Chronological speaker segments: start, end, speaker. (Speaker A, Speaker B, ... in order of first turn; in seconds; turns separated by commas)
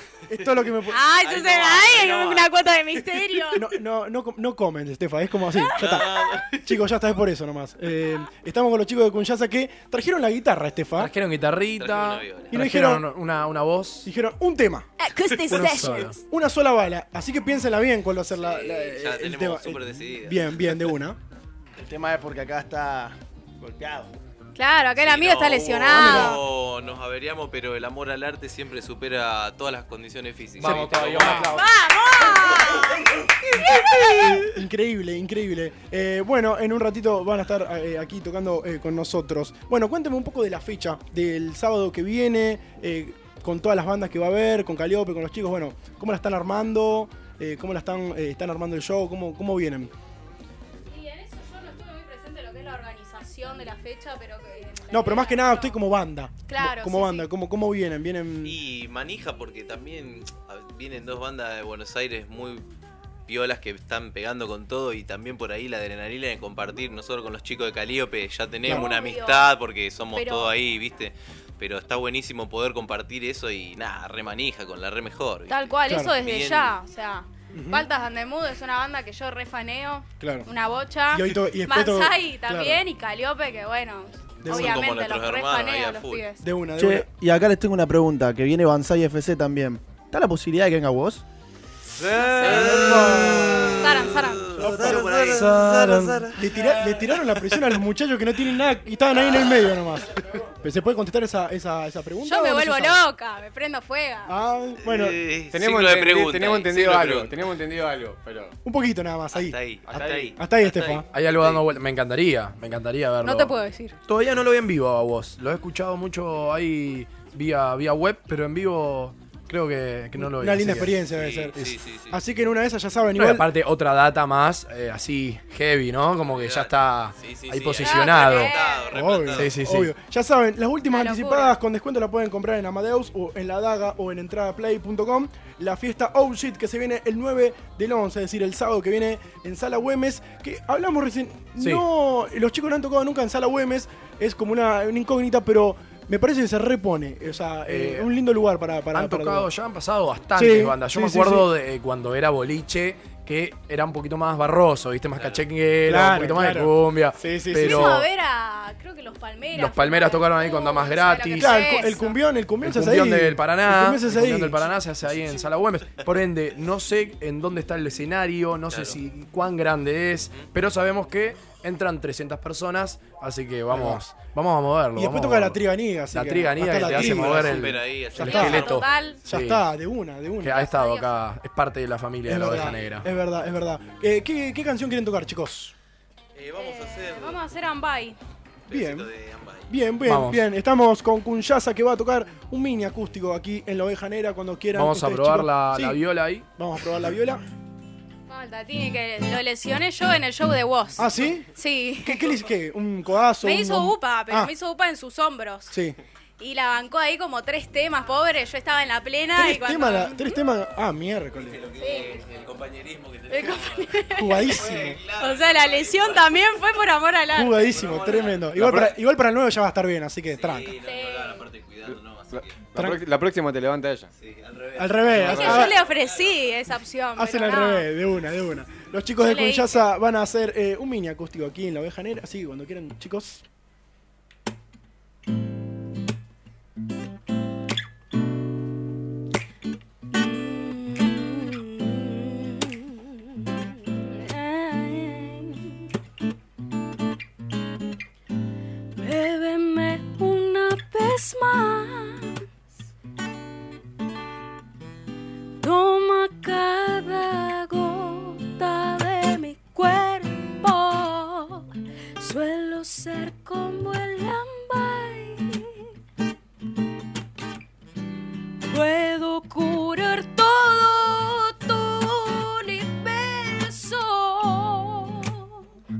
Speaker A: 0.3-1.1, Speaker B: 1.0-3.5, Speaker C: 1.0-3.5, Speaker D: 2.3-2.9, Speaker A: 3.5-11.1, Speaker B: 5.8-6.8, Speaker E: 11.0-14.1, Speaker B: 11.7-12.6, Speaker A: 12.5-13.1, Speaker A: 14.0-21.2, Speaker D: 15.0-16.1, Speaker E: 15.5-16.2, Speaker B: 18.3-20.7, Speaker F: 21.8-24.1, Speaker C: 24.6-26.4, Speaker B: 25.0-31.7, Speaker A: 25.8-26.4, Speaker E: 30.6-31.7, Speaker A: 30.6-31.5, Speaker D: 31.6-33.0, Speaker D: 33.5-34.5, Speaker A: 34.2-49.9, Speaker C: 50.9-55.8, Speaker A: 54.9-58.6, Speaker C: 56.5-57.3, Speaker B: 58.4-62.6, Speaker B: 63.3-76.8, Speaker A: 68.7-68.9, Speaker C: 68.7-69.5, Speaker C: 70.1-70.5, Speaker C: 75.5-86.4, Speaker A: 75.8-76.2, Speaker A: 77.5-77.8, Speaker A: 80.2-80.5, Speaker A: 81.1-82.8, Speaker A: 84.4-84.9, Speaker B: 84.4-86.3, Speaker A: 86.4-87.1, Speaker F: 86.8-91.2, Speaker B: 92.0-97.4, Speaker A: 92.4-93.8, Speaker F: 92.4-93.9, Speaker C: 92.4-92.7, Speaker C: 93.8-94.5, Speaker A: 94.5-103.0, Speaker F: 94.6-96.3, Speaker C: 102.2-104.3, Speaker A: 104.3-105.2, Speaker B: 104.8-107.5, Speaker G: 105.5-108.5, Speaker A: 108.6-109.6, Speaker B: 109.3-111.6, Speaker G: 109.9-110.3, Speaker A: 110.3-111.0, Speaker E: 111.1-113.5, Speaker C: 113.2-114.0, Speaker E: 114.0-121.0, Speaker A: 120.2-123.5, Speaker B: 121.0-122.2, Speaker E: 123.1-128.5, Speaker B: 126.2-129.6, Speaker C: 127.8-128.9, Speaker A: 128.9-149.5, Speaker E: 129.3-129.9, Speaker C: 130.9-131.5, Speaker E: 141.6-141.8, Speaker E: 147.7-148.1, Speaker E: 148.9-158.1, Speaker A: 150.3-151.5, Speaker B: 155.1-155.4, Speaker A: 155.8-158.0, Speaker C: 157.6-162.2, Speaker E: 159.5-162.0, Speaker A: 161.4-164.7, Speaker E: 162.6-179.7, Speaker B: 168.7-169.0, Speaker A: 173.7-174.0, Speaker A: 174.9-180.6, Speaker B: 176.8-179.1, Speaker C: 178.2-179.2, Speaker E: 180.4-183.1, Speaker C: 180.5-181.2, Speaker A: 182.2-185.7, Speaker B: 186.3-187.4, Speaker C: 186.6-188.2, Speaker B: 188.7-189.8, Speaker A: 188.7-189.1, Speaker A: 189.7-196.0, Speaker E: 190.0-190.4, Speaker E: 194.7-196.4, Speaker A: 196.6-197.4, Speaker C: 198.3-202.2, Speaker A: 201.0-201.5, Speaker A: 202.0-204.5, Speaker C: 203.4-205.7, Speaker A: 205.7-206.0, Speaker C: 206.4-210.2, Speaker A: 209.3-211.6, Speaker B: 211.3-216.4, Speaker C: 211.8-212.2, Speaker C: 213.3-214.2, Speaker A: 214.1-215.0, Speaker C: 215.2-217.6, Speaker A: 217.3-220.8, Speaker B: 217.6-218.5, Speaker G: 218.5-218.9, Speaker B: 220.3-222.7, Speaker C: 220.8-221.4, Speaker G: 221.8-224.1, Speaker A: 222.8-223.0, Speaker B: 224.2-226.7, Speaker A: 224.8-225.8, Speaker G: 225.1-225.7, Speaker C: 225.4-227.9, Speaker A: 227.2-233.4, Speaker C: 229.2-229.8, Speaker D: 240.1-243.4, Speaker D: 243.9-245.8, Speaker D: 248.9-252.4, Speaker D: 255.6-261.7, Speaker D: 262.2-265.9, Speaker D: 268.6-275.6